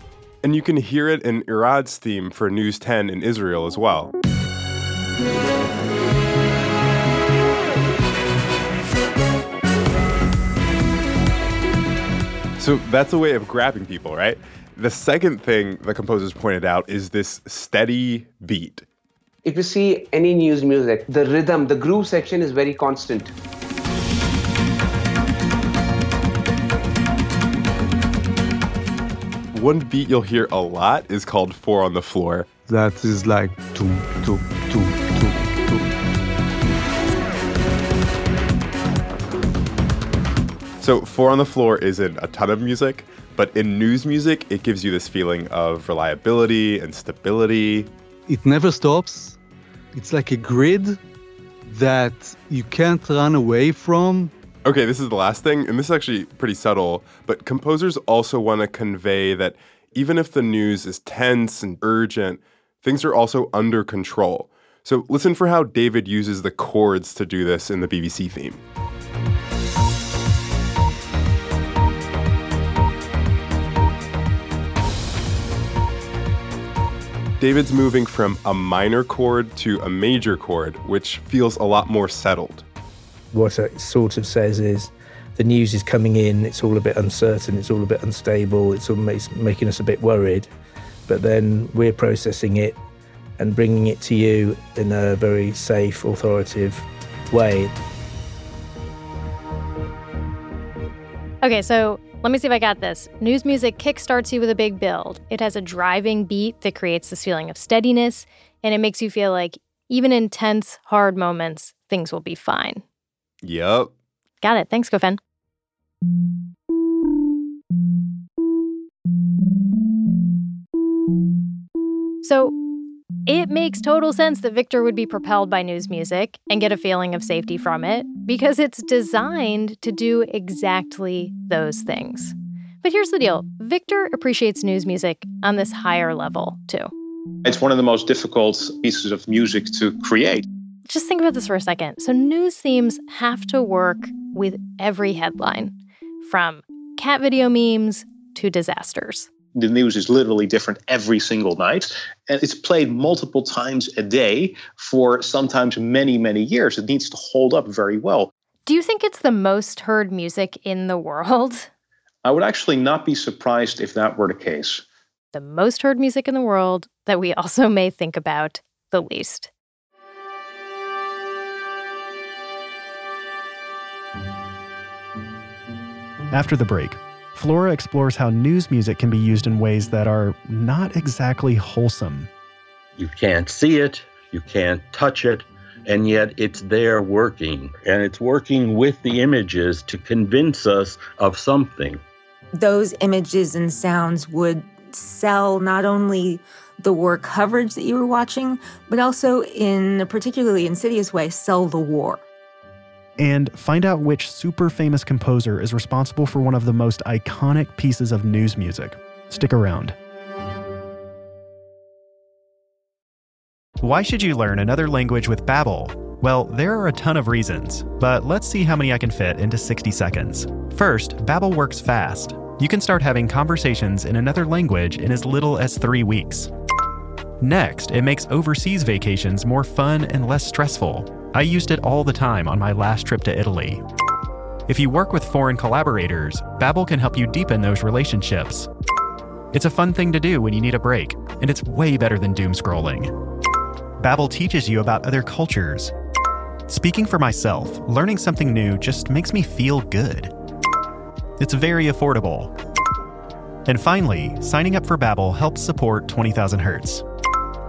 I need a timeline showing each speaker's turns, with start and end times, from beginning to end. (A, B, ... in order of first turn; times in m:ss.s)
0:00.4-0:04.1 A
0:12.6-0:18.8 A
0:19.5-0:23.3 B
0:29.5-0:32.4 A
0:32.7-0:35.9 C
0:40.8-0:47.9 A
0:48.3-0:49.4 C
0:49.9-0:51.0 C
0:51.6-0:54.3 C
0:54.6-1:08.6 A
1:17.4-1:22.6 A
1:23.3-1:30.5 D
1:31.1-1:32.8 D
1:33.4-1:37.7 D
1:41.4-1:52.8 E
1:53.4-1:53.9 A
1:54.4-1:55.2 E
2:02.2-2:02.5 E
2:03.2-2:16.9 E
2:17.4-2:20.4 F
2:20.9-2:29.3 E
2:29.6-2:38.3 F
2:38.6-2:41.7 E
2:42.2-2:44.8 F
2:45.3-2:49.5 E
2:56.3-3:02.3 G
3:03.0-3:12.0 H
3:12.6-3:22.2 I
3:23.2-3:29.9 G
3:33.8-3:46.5 G
3:47.4-3:53.8 G
3:54.7-3:58.7 G
3:59.5-4:03.1 G
4:04.0-4:05.9 G
4:06.7-4:10.3 G
4:11.4-4:12.5 G
4:13.6-4:17.0 G